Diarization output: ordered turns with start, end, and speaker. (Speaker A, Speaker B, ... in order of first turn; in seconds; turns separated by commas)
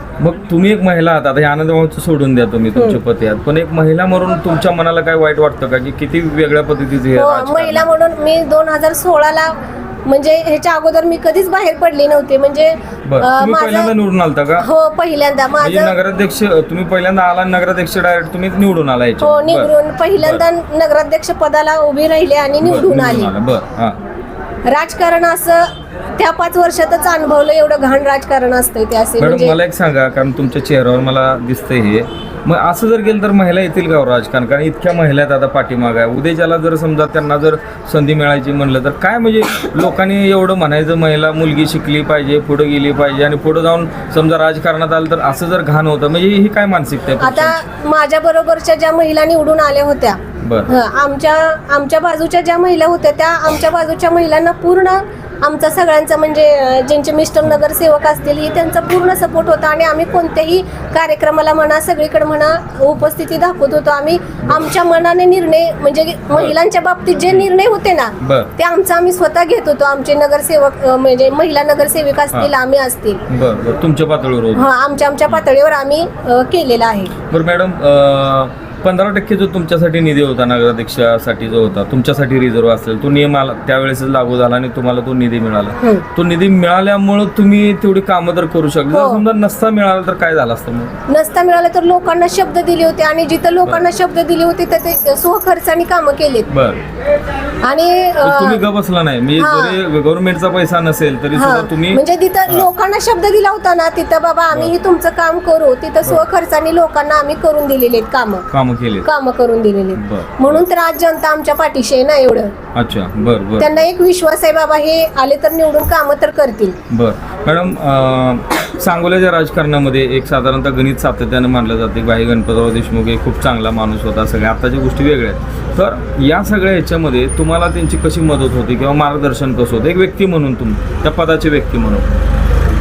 Speaker A: 0.2-7.9, Speaker B: 2.8-3.0, Speaker B: 7.2-13.9, Speaker A: 13.1-14.7, Speaker B: 14.6-15.9, Speaker A: 15.6-20.4, Speaker B: 19.2-23.3, Speaker A: 22.6-24.0, Speaker B: 24.7-29.6, Speaker A: 29.2-47.6, Speaker B: 47.2-73.2, Speaker A: 50.4-50.7, Speaker A: 68.2-68.5, Speaker A: 73.3-74.7, Speaker B: 74.5-77.1, Speaker A: 77.3-90.9, Speaker B: 88.9-89.2, Speaker B: 91.1-96.5, Speaker A: 96.5-96.8, Speaker B: 97.6-98.6, Speaker A: 98.2-102.7, Speaker B: 99.4-99.8, Speaker B: 101.3-108.5, Speaker A: 108.5-109.1, Speaker B: 109.0-112.5, Speaker A: 109.9-110.7, Speaker A: 112.7-113.8, Speaker B: 113.6-116.8, Speaker A: 116.9-132.1